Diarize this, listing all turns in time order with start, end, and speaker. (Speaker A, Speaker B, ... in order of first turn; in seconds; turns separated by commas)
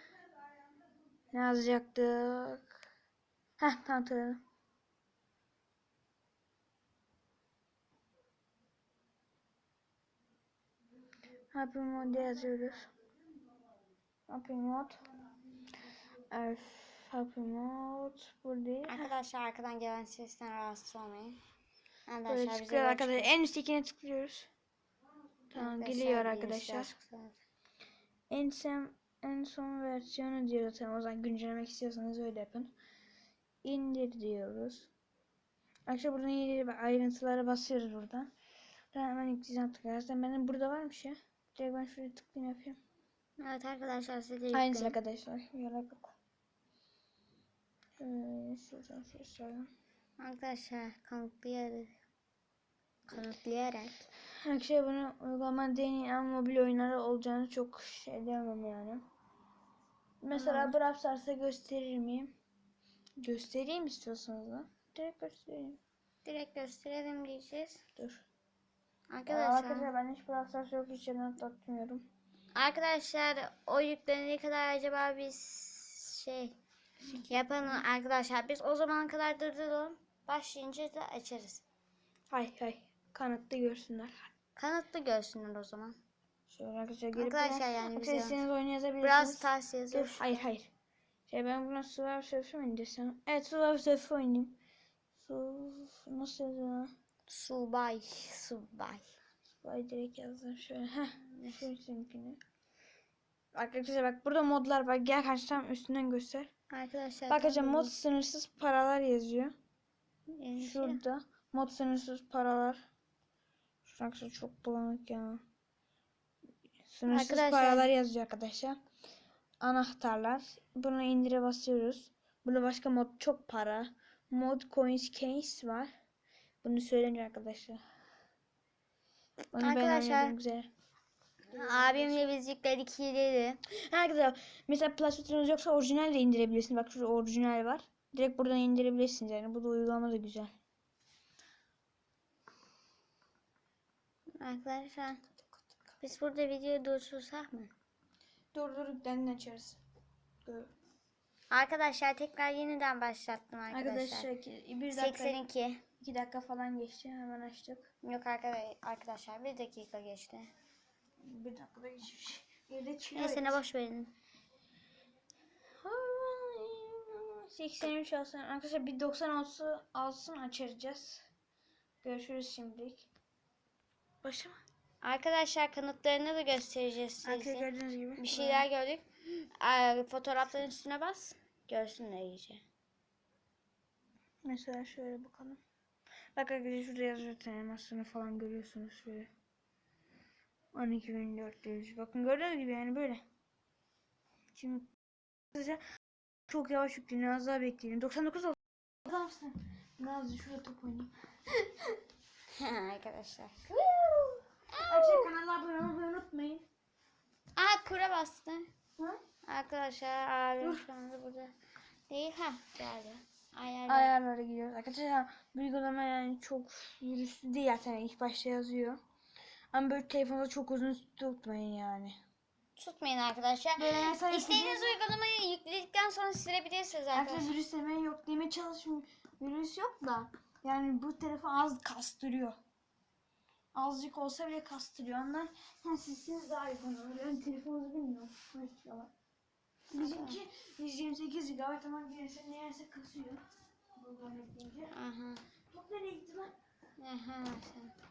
Speaker A: 1.3-2.8, Speaker A: 3.6-4.4, Speaker A: 11.5-12.9, Speaker A: 14.3-15.0, Speaker A: 16.3-19.1, Speaker B: 18.9-21.4, Speaker B: 22.1-23.3, Speaker A: 22.3-24.5, Speaker A: 25.5-26.9, Speaker B: 25.5-27.4, Speaker A: 28.3-32.7, Speaker A: 33.6-34.9, Speaker A: 35.9-38.3, Speaker A: 38.9-42.8, Speaker B: 43.4-45.0, Speaker A: 44.5-46.1, Speaker A: 48.0-49.7, Speaker B: 50.2-51.9, Speaker B: 53.1-54.0, Speaker A: 54.4-59.0, Speaker A: 60.2-62.3, Speaker B: 60.3-60.8, Speaker A: 63.2-65.8, Speaker B: 66.2-67.8, Speaker A: 68.0-68.2, Speaker B: 69.1-69.9, Speaker A: 69.3-72.1, Speaker B: 72.5-76.6, Speaker A: 77.1-77.8, Speaker B: 77.1-81.6, Speaker A: 82.3-84.3, Speaker B: 84.6-86.0, Speaker A: 86.5-90.7, Speaker B: 87.2-88.4, Speaker B: 89.0-90.5, Speaker A: 91.3-94.6, Speaker A: 95.2-96.9, Speaker B: 97.3-99.1, Speaker A: 99.6-102.4, Speaker B: 101.4-101.7, Speaker A: 103.5-106.5, Speaker B: 106.7-107.9, Speaker A: 107.3-109.5, Speaker B: 110.3-111.0, Speaker A: 110.6-112.8, Speaker A: 113.8-115.4, Speaker A: 116.9-118.8, Speaker B: 117.1-117.9, Speaker A: 119.6-125.9, Speaker A: 126.6-127.8, Speaker B: 129.5-130.3, Speaker A: 129.5-130.7, Speaker B: 131.5-133.6, Speaker A: 131.5-132.2, Speaker A: 133.7-140.5, Speaker B: 144.4-145.2, Speaker B: 146.0-147.7, Speaker A: 148.5-149.8, Speaker A: 150.4-150.7, Speaker B: 151.5-154.3, Speaker A: 153.7-155.4, Speaker B: 154.9-155.8, Speaker A: 156.0-157.9, Speaker B: 158.0-160.5, Speaker A: 161.2-163.6, Speaker B: 163.2-164.1, Speaker A: 165.8-171.3, Speaker A: 172.0-173.1, Speaker A: 174.2-174.6, Speaker B: 175.0-182.6, Speaker A: 177.2-178.7, Speaker A: 184.4-185.6, Speaker A: 186.4-189.3, Speaker A: 190.7-193.2, Speaker A: 194.6-194.9, Speaker A: 195.5-195.8, Speaker A: 196.5-201.7, Speaker B: 202.6-203.6, Speaker A: 203.7-206.7, Speaker B: 204.7-205.3, Speaker B: 207.6-208.6, Speaker B: 209.4-211.5, Speaker B: 212.1-214.1, Speaker A: 213.9-219.0, Speaker A: 219.7-222.2, Speaker B: 222.8-227.5, Speaker A: 223.8-225.0, Speaker A: 227.1-232.6, Speaker A: 233.7-239.1, Speaker B: 239.9-240.4, Speaker A: 239.9-243.4, Speaker A: 244.0-244.9, Speaker B: 244.9-245.4, Speaker A: 245.7-246.5, Speaker B: 247.0-247.9